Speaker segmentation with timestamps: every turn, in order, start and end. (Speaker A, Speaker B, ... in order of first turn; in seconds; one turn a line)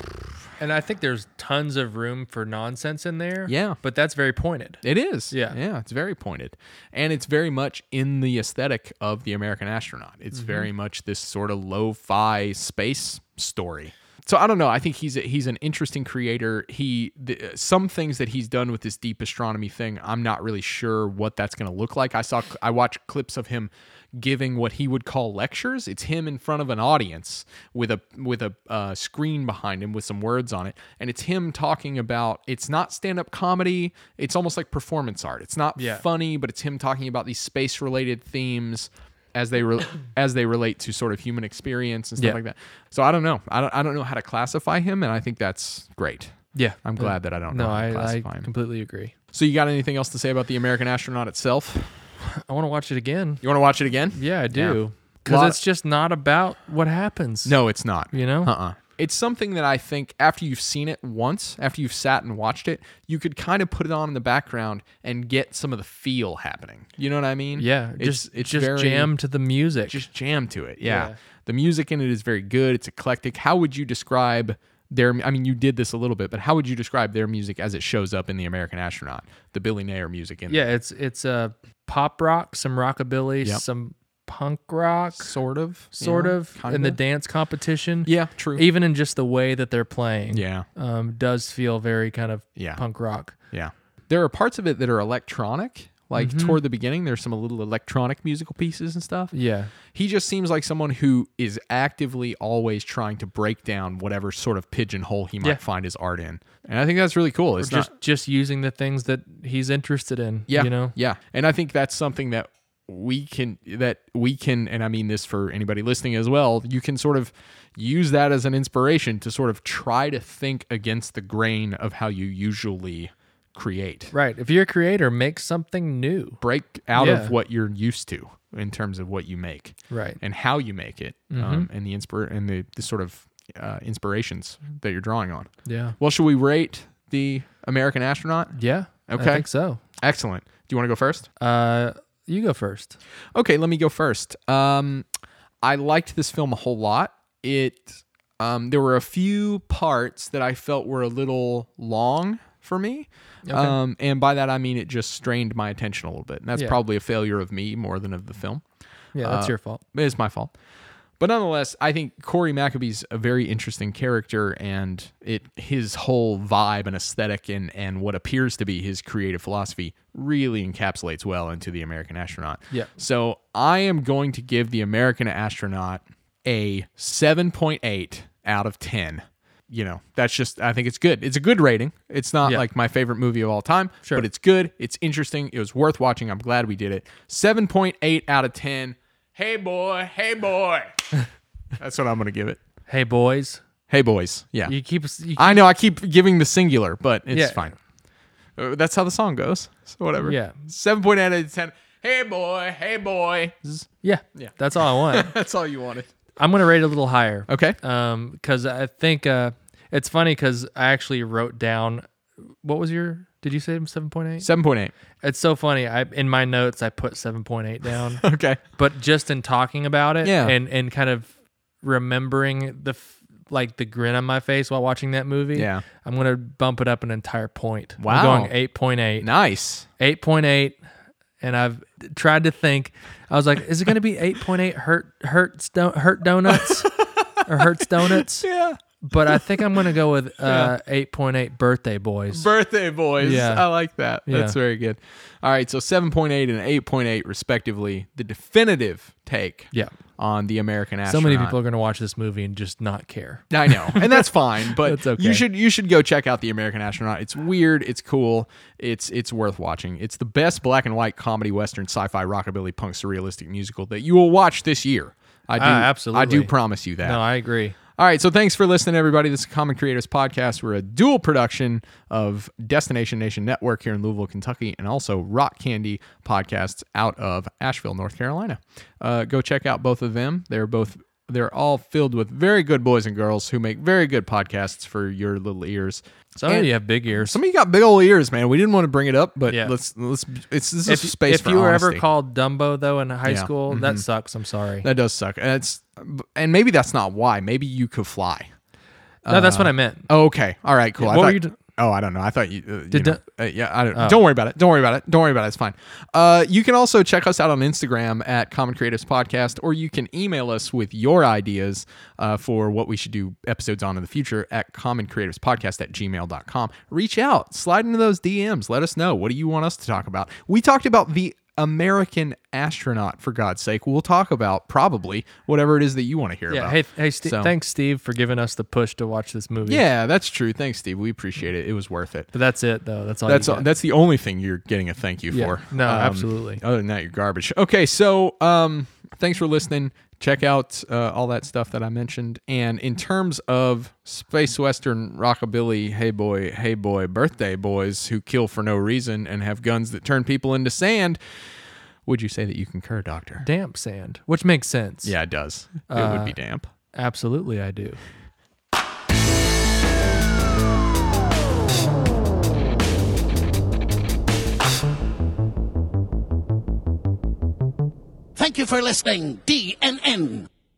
Speaker A: 0.6-5.6
Speaker B: 3.5-3.8
Speaker B: 4.8-48.5
Speaker A: 10.3-10.7
Speaker A: 35.8-36.0
Speaker A: 46.5-49.1
Speaker B: 49.3-52.0
Speaker A: 52.2-53.4
Speaker B: 53.4-55.6
Speaker A: 54.1-57.5
Speaker B: 57.4-69.1
Speaker A: 58.1-58.5
Speaker A: 67.6-70.1
Speaker B: 69.8-80.7
Speaker A: 70.8-71.2
Speaker A: 80.5-85.3
Speaker B: 85.2-87.0
Speaker A: 85.9-93.3
Speaker B: 88.0-88.7
Speaker B: 90.3-90.7
Speaker B: 92.5-92.8
Speaker B: 93.5-99.3
Speaker A: 96.1-96.6
Speaker A: 99.3-99.7
Speaker B: 99.8-107.9
Speaker A: 107.6-110.9
Speaker B: 110.5-124.1
Speaker A: 124.1-126.4
Speaker B: 126.4-141.3
Speaker A: 127.0-127.3
Speaker A: 129.9-130.2
Speaker A: 131.3-131.7
Speaker A: 135.7-135.9
Speaker A: 138.5-139.8
Speaker A: 141.4-143.0
Speaker B: 143.3-145.1
Speaker B: 145.6-158.6
Speaker A: 153.4-153.8
Speaker A: 159.1-159.8
Speaker B: 159.2-160.5
Speaker B: 161.2-191.1
Speaker B: 191.8-192.6
Speaker A: 192.9-193.6
Speaker B: 193.9-194.7
Speaker A: 194.7-195.6
Speaker B: 195.3-197.7
Speaker A: 197.3-197.7
Speaker B: 198.6-206.1
Speaker A: 200.2-200.6
Speaker A: 204.0-205.3
Speaker A: 206.4-212.0
Speaker B: 207.5-207.8
Speaker A: 212.6-214.5
Speaker B: 214.4-214.9
Speaker A: 215.2-229.3
Speaker B: 218.2-218.6
Speaker B: 220.2-220.6
Speaker B: 225.5-225.8
Speaker B: 228.0-228.5
Speaker B: 229.2-229.9
Speaker A: 230.0-230.8
Speaker A: 231.4-236.9
Speaker B: 236.4-239.8
Speaker A: 237.4-238.5
Speaker A: 239.0-242.5
Speaker B: 240.4-240.7
Speaker B: 242.3-251.6
Speaker A: 243.2-243.7
Speaker A: 244.2-244.6
Speaker A: 251.1-255.4
Speaker B: 253.5-267.2
Speaker A: 265.6-267.8
Speaker B: 267.9-292.0
Speaker A: 286.4-287.4
Speaker A: 289.5-289.7
Speaker A: 290.9-294.9
Speaker B: 293.2-294.1
Speaker B: 294.8-298.5
Speaker B: 299.2-327.5
Speaker A: 299.3-300.1
Speaker A: 301.0-301.6
Speaker A: 302.9-303.2
Speaker A: 303.9-304.2
Speaker A: 326.5-329.8
Speaker B: 329.6-332.3
Speaker A: 332.3-333.7
Speaker B: 333.2-351.2
Speaker A: 335.3-336.6
Speaker B: 352.1-353.4
Speaker A: 353.4-355.1
Speaker B: 355.0-356.7
Speaker A: 355.9-356.4
Speaker A: 356.9-358.0
Speaker C: 368.4-370.5